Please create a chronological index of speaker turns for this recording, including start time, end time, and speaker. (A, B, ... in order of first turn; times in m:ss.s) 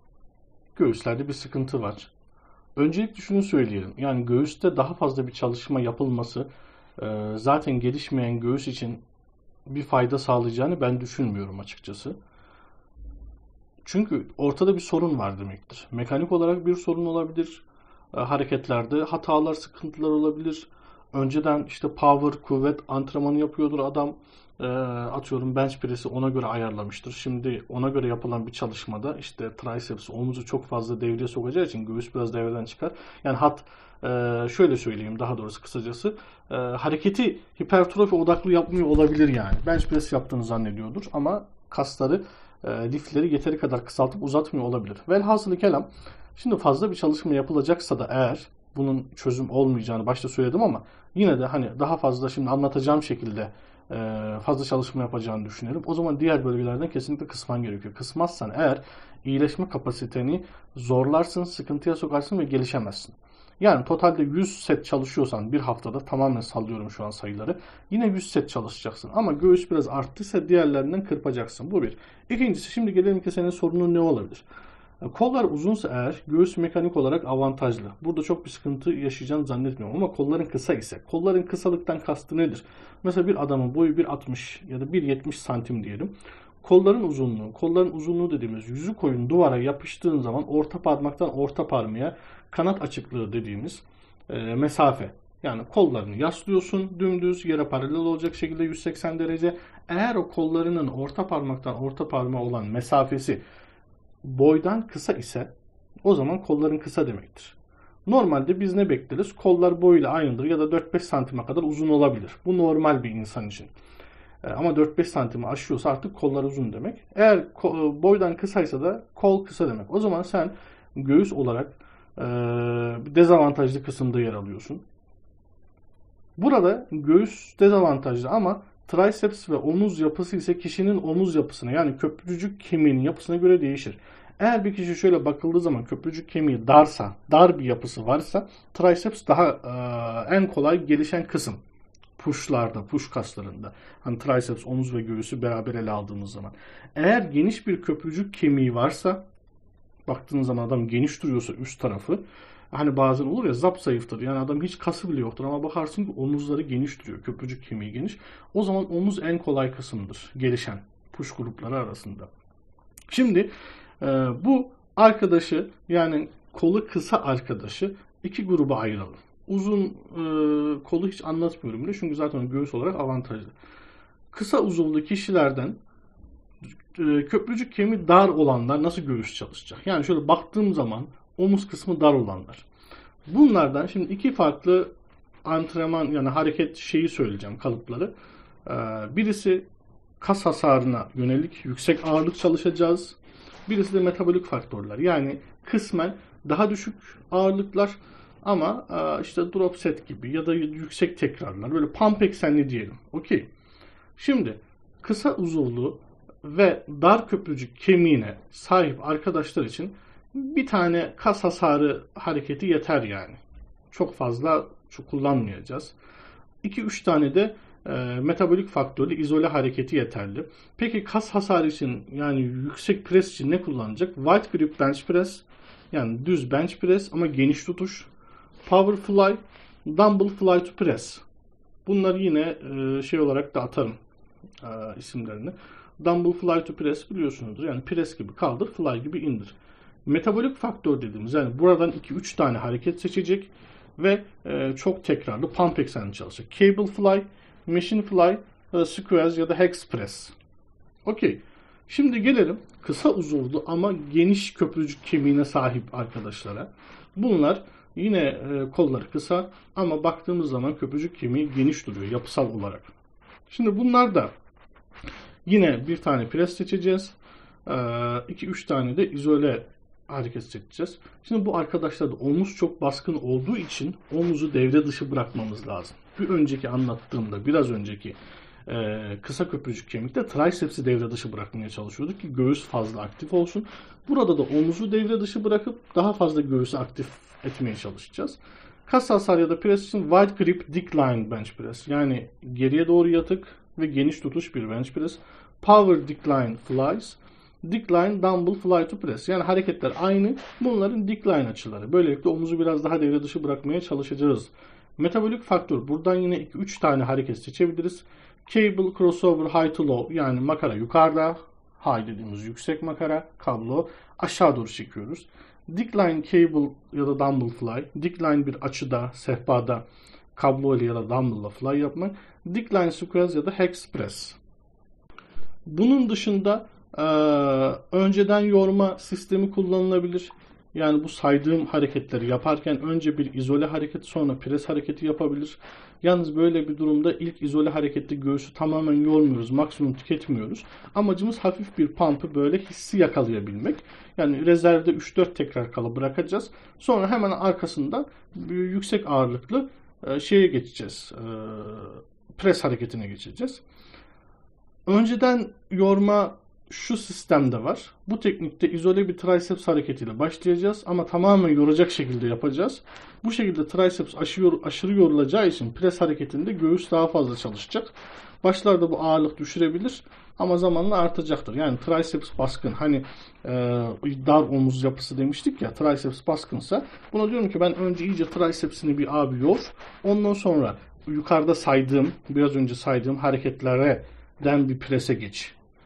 0:00.8-0:02.1 A
0:02.8-0:09.0 A
0:09.7-0:12.2 A
0:13.8-1:14.4 A
1:15.0-1:43.4 A
1:44.2-1:45.5 A
1:46.0-1:53.7 A
1:54.4-2:04.8 A
2:06.4-2:21.6 A
2:22.2-2:29.2 A
2:30.1-2:42.3 A
2:43.1-2:53.5 A
2:54.3-2:55.8 A
2:56.9-3:02.7 A
3:03.3-3:04.9 A
3:05.4-3:08.1 A
3:08.6-3:09.7 A
3:10.2-3:23.5 A
3:24.2-3:36.0 A
3:36.6-3:48.1 A
3:48.6-3:51.2 A
3:51.8-3:54.0 A
3:54.6-4:10.4 A
4:11.0-4:22.9 A
4:23.5-4:24.3 A
4:25.5-5:24.4 A
5:25.7-5:53.6 A
5:54.9-6:25.6 A